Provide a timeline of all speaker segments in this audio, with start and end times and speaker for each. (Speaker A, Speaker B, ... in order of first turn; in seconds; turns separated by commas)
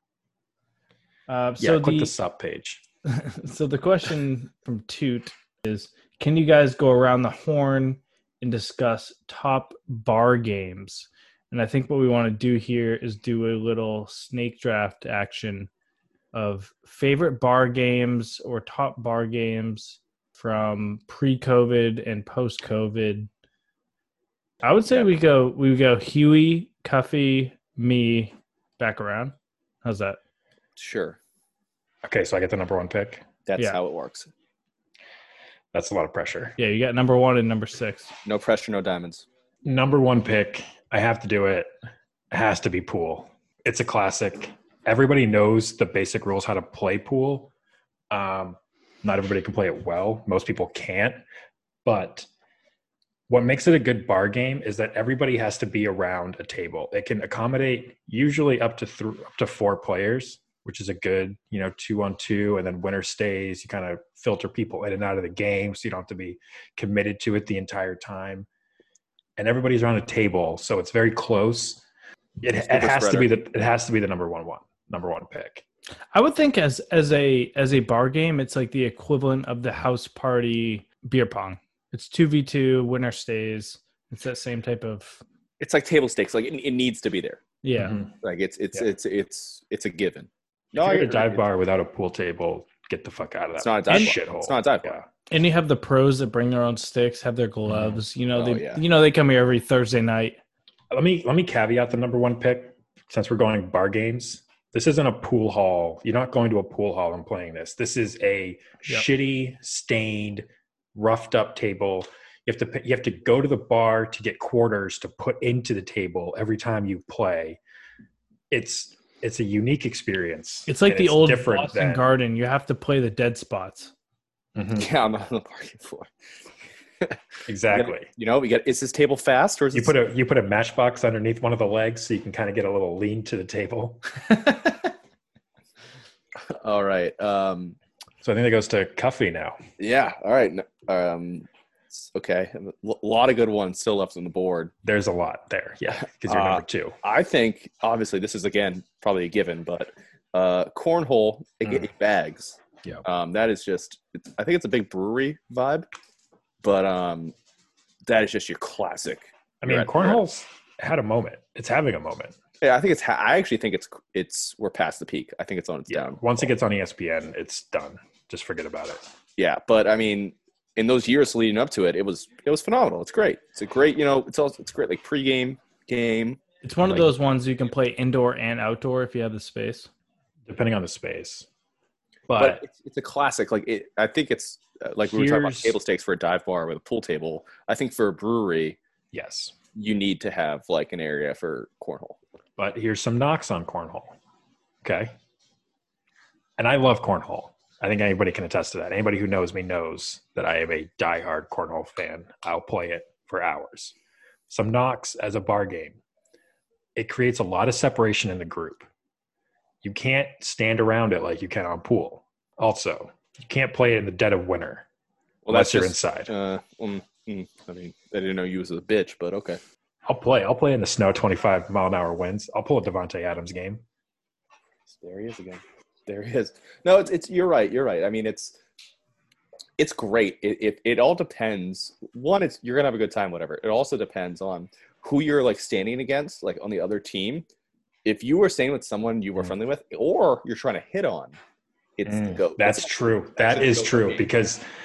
Speaker A: 1.3-2.1, Speaker B: 1.6-2.8, Speaker A: 3.1-15.7, Speaker A: 16.3-23.3, Speaker A: 24.6-30.2, Speaker C: 30.8-31.2, Speaker B: 32.0-33.2, Speaker C: 33.5-34.3, Speaker B: 35.7-36.6, Speaker A: 36.6-38.1, Speaker C: 38.2-39.3, Speaker B: 39.6-41.7, Speaker B: 42.3-47.5, Speaker B: 48.1-51.2, Speaker B: 51.9-52.3, Speaker B: 53.3-68.5, Speaker B: 69.4-71.8, Speaker B: 72.4-75.6, Speaker C: 72.6-73.3, Speaker A: 76.1-85.2, Speaker C: 85.6-87.4, Speaker A: 87.6-88.0, Speaker B: 87.8-88.1, Speaker C: 88.2-91.5, Speaker B: 90.8-95.1, Speaker C: 93.6-95.0, Speaker A: 95.3-100.4, Speaker B: 97.7-98.0, Speaker C: 98.3-98.8, Speaker B: 100.9-117.6, Speaker B: 118.5-122.1, Speaker A: 120.7-123.9, Speaker B: 124.5-124.9, Speaker C: 124.8-126.1, Speaker B: 127.5-128.1, Speaker C: 127.7-129.9, Speaker B: 129.7-134.7, Speaker C: 136.4-137.8, Speaker B: 138.2-139.6, Speaker C: 139.8-144.7, Speaker B: 144.8-147.0, Speaker C: 146.2-155.9, Speaker C: 156.6-157.3, Speaker C: 158.1-160.2, Speaker B: 159.6-162.3, Speaker C: 162.6-166.5, Speaker B: 165.9-169.1, Speaker C: 169.4-176.4, Speaker A: 176.6-179.9, Speaker B: 176.8-177.1, Speaker B: 180.5-181.5, Speaker B: 182.3-182.6, Speaker C: 182.4-188.8, Speaker B: 185.0-185.8, Speaker B: 189.1-189.6, Speaker C: 189.8-192.2, Speaker B: 192.6-194.2, Speaker B: 194.8-195.1, Speaker B: 196.6-203.9, Speaker B: 204.5-206.0, Speaker B: 207.0-208.9, Speaker B: 209.8-214.9, Speaker C: 215.4-219.6, Speaker B: 215.5-216.3, Speaker B: 220.1-223.8, Speaker C: 224.9-228.6, Speaker C: 229.8-237.5, Speaker C: 238.1-241.4, Speaker C: 242.0-244.2, Speaker B: 242.1-244.7